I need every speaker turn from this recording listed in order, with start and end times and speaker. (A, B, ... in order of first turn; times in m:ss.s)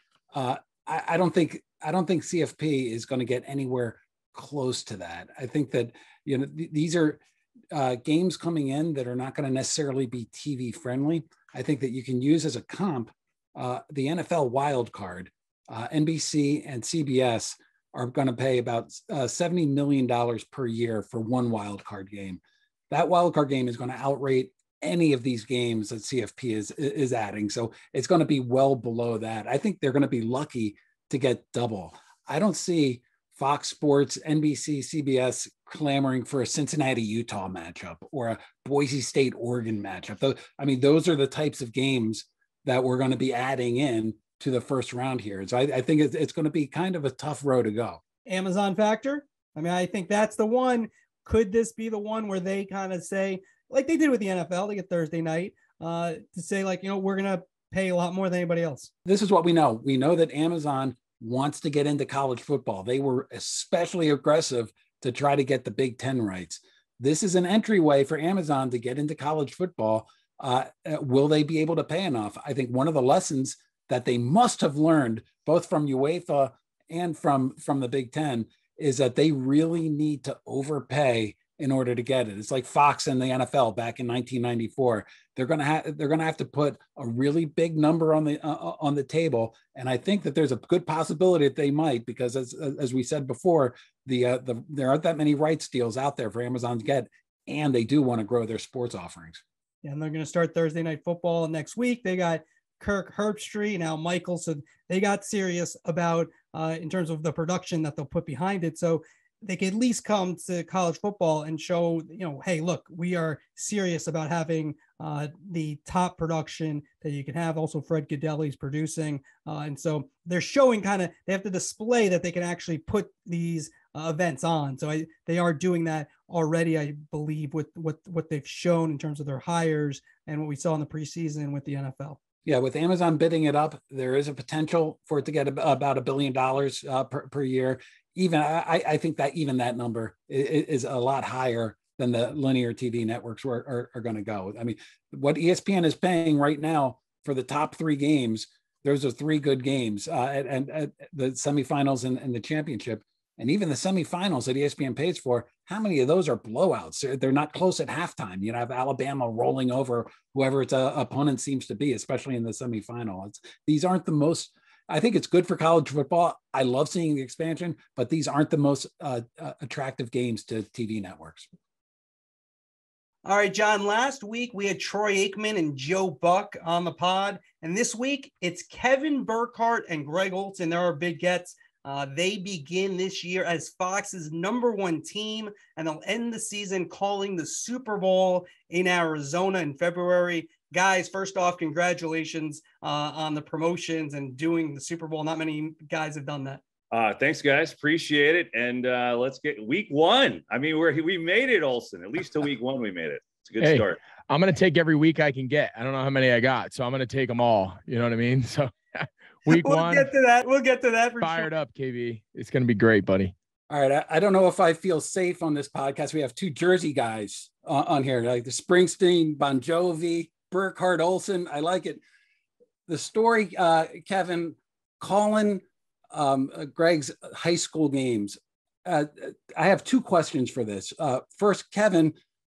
0:00.3-0:07.2 A
0:07.7-0:48.0 A
0:48.3-0:58.9 B
0:59.0-1:39.4 A
1:39.8-2:12.2 B
2:12.4-2:51.5 A
2:53.2-3:16.6 B
3:16.9-3:24.0 C
3:23.6-3:30.1 D
3:29.5-3:31.5 B
3:31.2-3:33.3 D
3:33.7-3:42.0 A
3:42.9-3:52.2 A